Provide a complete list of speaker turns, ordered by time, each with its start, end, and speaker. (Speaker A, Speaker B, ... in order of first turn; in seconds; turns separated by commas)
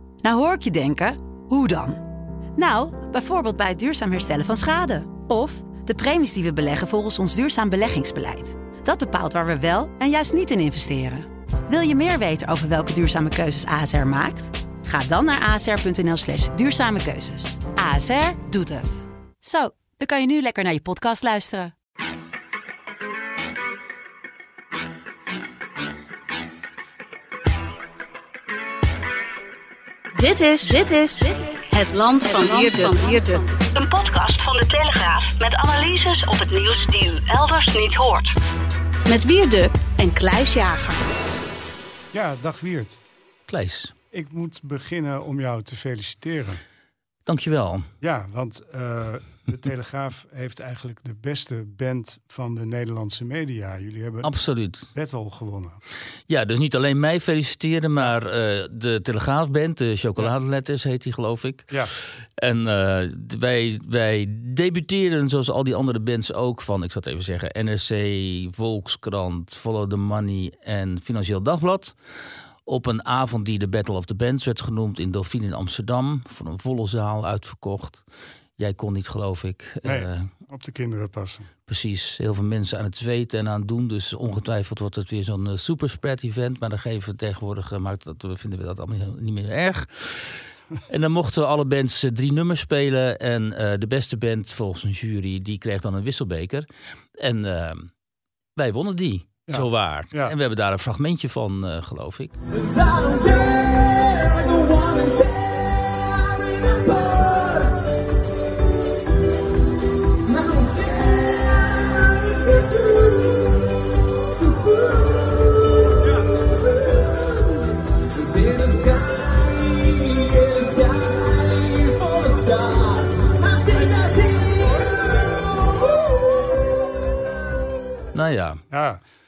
Speaker A: 0.2-2.0, Speaker A: 2.5-21.7, Speaker B: 30.1-33.5, Speaker A: 32.4-32.9, Speaker C: 33.7-38.3, Speaker B: 39.1-41.0, Speaker D: 42.1-43.0, Speaker E: 43.5-43.9, Speaker D: 44.1-46.6, Speaker E: 47.2-47.9, Speaker D: 48.0-54.3, Speaker E: 54.2-54.9, Speaker D: 54.9-55.8, Speaker E: 56.3-61.8, Speaker E: 62.4-71.9, Speaker E: 72.7-78.0, Speaker E: 78.6-80.3, Speaker D: 79.8-81.5, Speaker E: 81.7-96.7, Speaker E: 97.2-97.9, Speaker E: 98.5-102.3, Speaker D: 99.5-100.3, Speaker E: 128.1-128.6, Speaker D: 128.7-129.0